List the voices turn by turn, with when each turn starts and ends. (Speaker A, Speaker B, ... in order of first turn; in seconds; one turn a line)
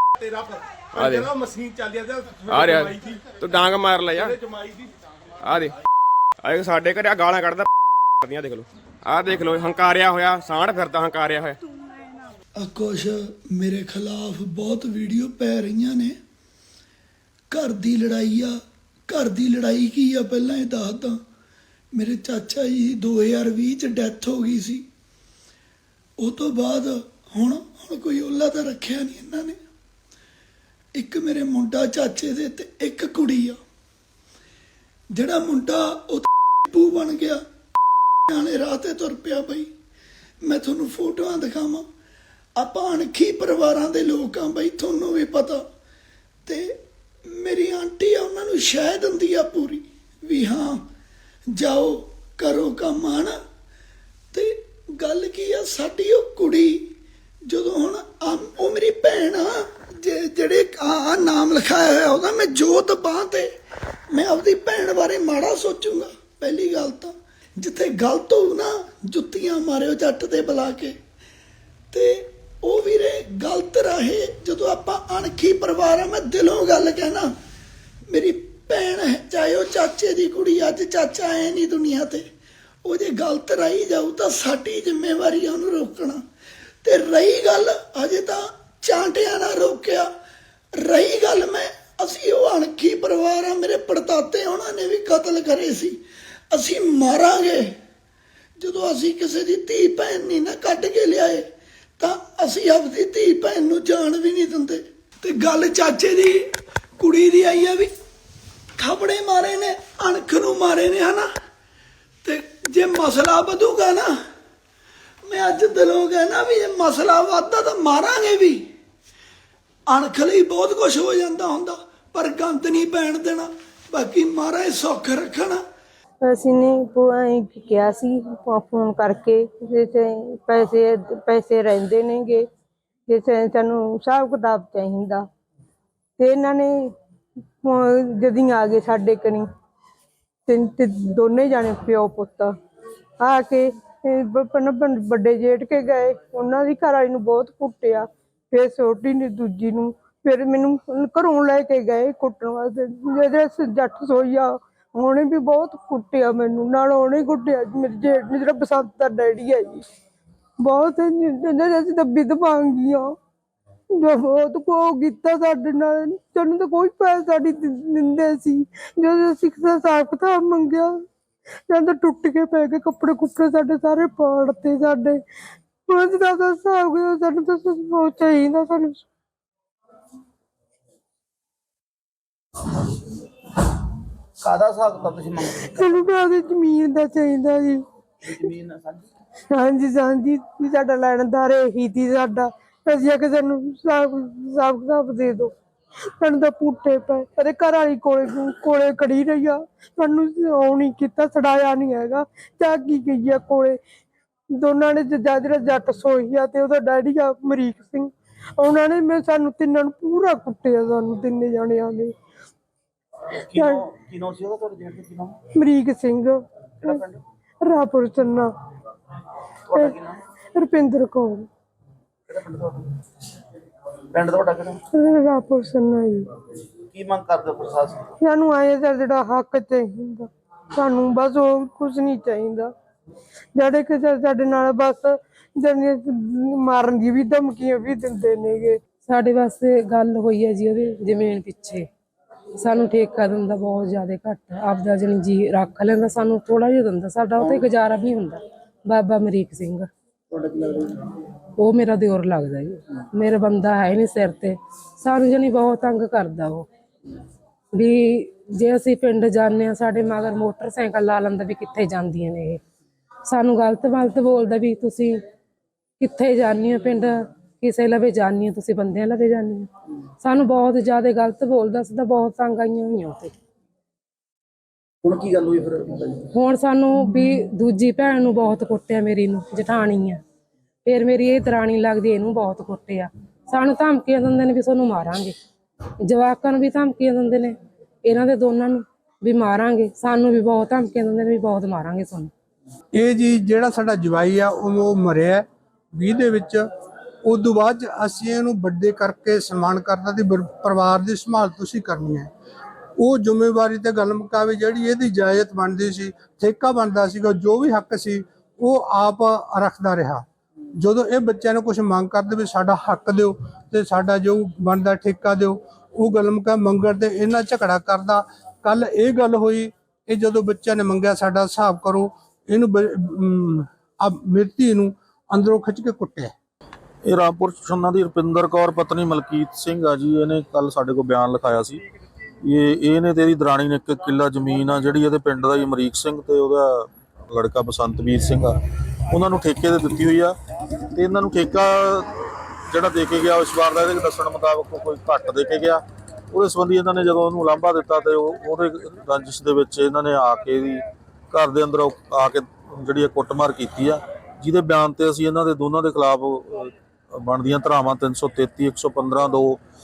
Speaker A: 0.9-4.7
Speaker A: 5.4-5.7
Speaker A: 6.4-7.7
Speaker A: 8.2-11.6
Speaker B: 12.6-16.2
Speaker B: 17.5-21.2
Speaker B: 21.9-24.9
Speaker B: 26.2-29.6
Speaker B: 31.0-33.6
Speaker B: 35.1-37.4
Speaker B: 38.3-39.7
Speaker B: 40.5-41.9
Speaker B: 42.6-45.6
Speaker B: 46.5-46.8
Speaker B: 47.3-50.9
Speaker B: 51.6-53.4
Speaker B: 54.3-56.9
Speaker B: 57.5-63.5
Speaker B: 64.1-71.0
Speaker B: 71.9-77.3
Speaker B: 78.1-82.2
Speaker B: 82.8-86.2
Speaker B: 86.8-90.1
Speaker B: 90.8-96.0
Speaker B: 96.5-97.7
Speaker B: 98.6-101.5
Speaker B: 102.0-106.4
Speaker B: 107.0-107.9
Speaker B: 108.8-111.3
Speaker B: 112.2-114.1
Speaker B: 115.3-118.7
Speaker B: 119.9-125.6
Speaker C: 126.2-132.4
Speaker C: 133.1-135.2
Speaker C: 136.2-136.9
Speaker C: 137.6-139.5
Speaker C: 140.5-142.5
Speaker C: 143.2-159.8
Speaker C: 160.6-163.1
Speaker C: 164.0-170.9
Speaker C: 171.7-175.2
Speaker C: 175.9-179.1
Speaker D: 184.4-186.1
Speaker C: 185.6-187.8
Speaker D: 188.2-189.1
Speaker C: 189.5-195.5
Speaker C: 196.2-203.8
Speaker C: 204.5-212.1
Speaker D: 213.4-215.4
Speaker C: 213.6-213.8
Speaker C: 215.6-217.0
Speaker D: 216.8-217.2
Speaker C: 217.6-218.5
Speaker D: 219.7-220.2
Speaker C: 220.6-221.5
Speaker D: 222.3-222.9
Speaker D: 224.1-224.8
Speaker C: 224.9-226.3
Speaker D: 226.9-228.1
Speaker C: 228.2-232.7
Speaker C: 233.6-238.8
Speaker E: 239.1-241.9
Speaker E: 242.6-249.9
Speaker D: 247.4-247.7
Speaker D: 250.3-250.9
Speaker E: 251.6-256.7
Speaker E: 257.7-262.6
Speaker E: 263.3-265.2
Speaker E: 266.0-269.7
Speaker E: 270.2-273.3
Speaker D: 275.0-276.2
Speaker E: 276.3-280.2
Speaker E: 280.9-285.3
Speaker E: 286.0-292.3
Speaker F: 293.0-296.6
Speaker F: 297.2-302.3
Speaker F: 303.0-310.2
Speaker F: 310.8-326.3
Speaker G: 327.1-331.8
Speaker G: 332.4-338.5
Speaker G: 339.1-340.4
Speaker G: 340.9-342.1
Speaker G: 342.7-359.6